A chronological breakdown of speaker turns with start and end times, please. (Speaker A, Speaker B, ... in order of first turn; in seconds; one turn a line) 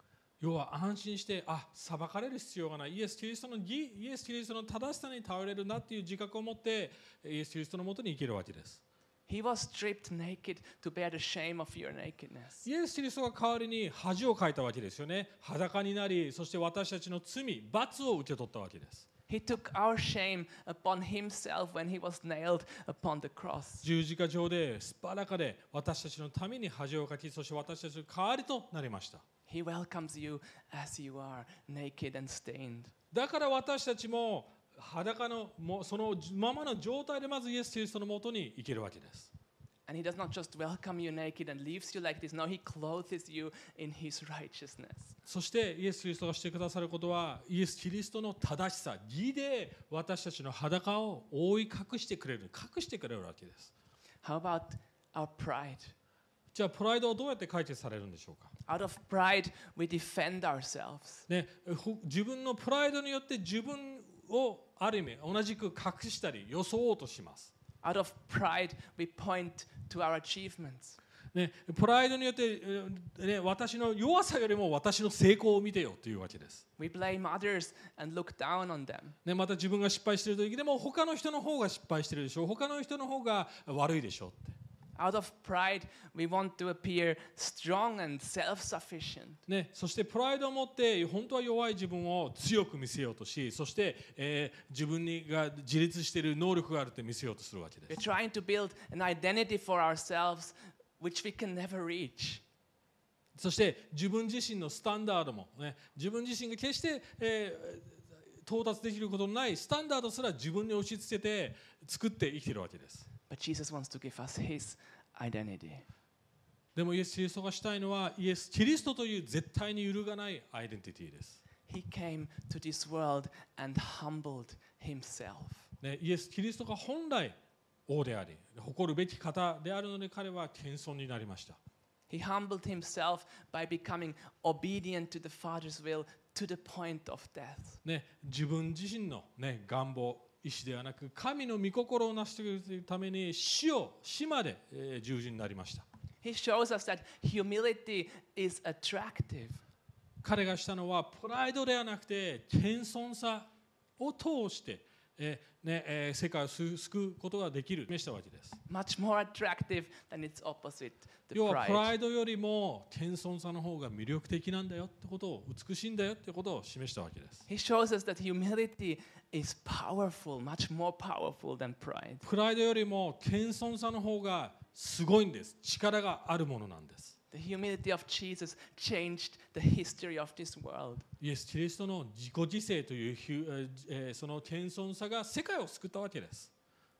Speaker A: 0.4-8.8
Speaker B: 9.3-12.7
Speaker A: 12.6-19.1
Speaker B: 19.3-23.9
Speaker A: 23.8-29.2
Speaker B: 29.5-32.9
Speaker A: 33.1-39.3
Speaker B: 39.9-45.2
Speaker A: 45.3-53.7
Speaker B: 54.2-55.9
Speaker A: 56.5-58.5
Speaker B: 58.7-61.3
Speaker A: 61.3-67.5
Speaker B: 67.8-71.0
Speaker A: 71.3-76.6
Speaker B: 76.8-79.1
Speaker A: 79.2-84.6
Speaker B: 85.0-89.4
Speaker A: 89.5-98.0
Speaker B: 97.9-102.4
Speaker A: 103.3-113.1
Speaker B: 113.3-115.8
Speaker A: 116.7-121.4
Speaker B: 121.7-125.7
Speaker A: 125.8-127.4
Speaker A: 127.9-131.6
Speaker B: 132.1-137.8
Speaker A: 137.8-145.8
Speaker B: 146.2-149.6
Speaker A: 150.2-158.6
Speaker B: 158.7-161.9
Speaker A: 161.3-167.4
Speaker B: 167.5-172.3
Speaker A: 172.2-177.1
Speaker B: 177.3-181.1
Speaker A: 181.2-186.5